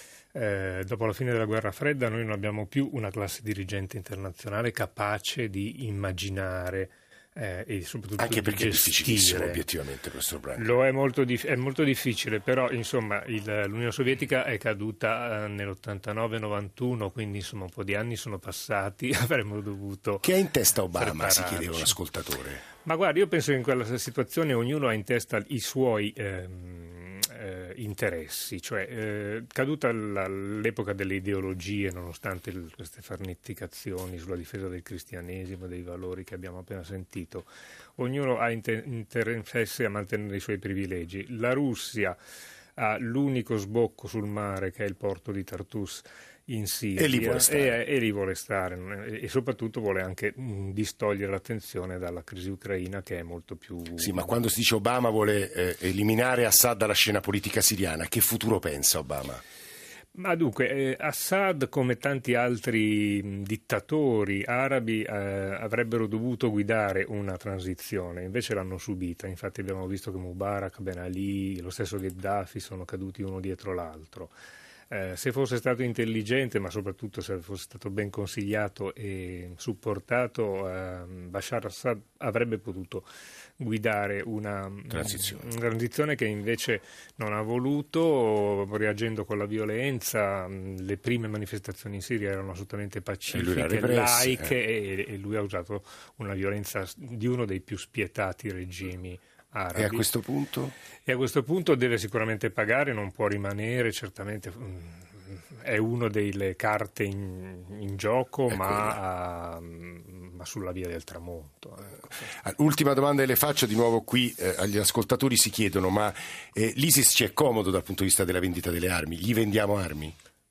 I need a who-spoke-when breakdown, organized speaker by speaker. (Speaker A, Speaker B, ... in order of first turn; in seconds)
Speaker A: 0.3-9.6, 10.6-20.3, 21.0-22.0, 22.9-42.2, 42.8-54.3, 60.1-74.3, 74.9-83.1, 83.6-100.0, 101.1-112.3
Speaker B: 8.2-10.7, 20.2-22.6, 47.0-47.8, 54.0-59.4, 84.9-85.5, 93.3-94.5, 99.8-100.7, 108.5-109.0, 112.4-120.2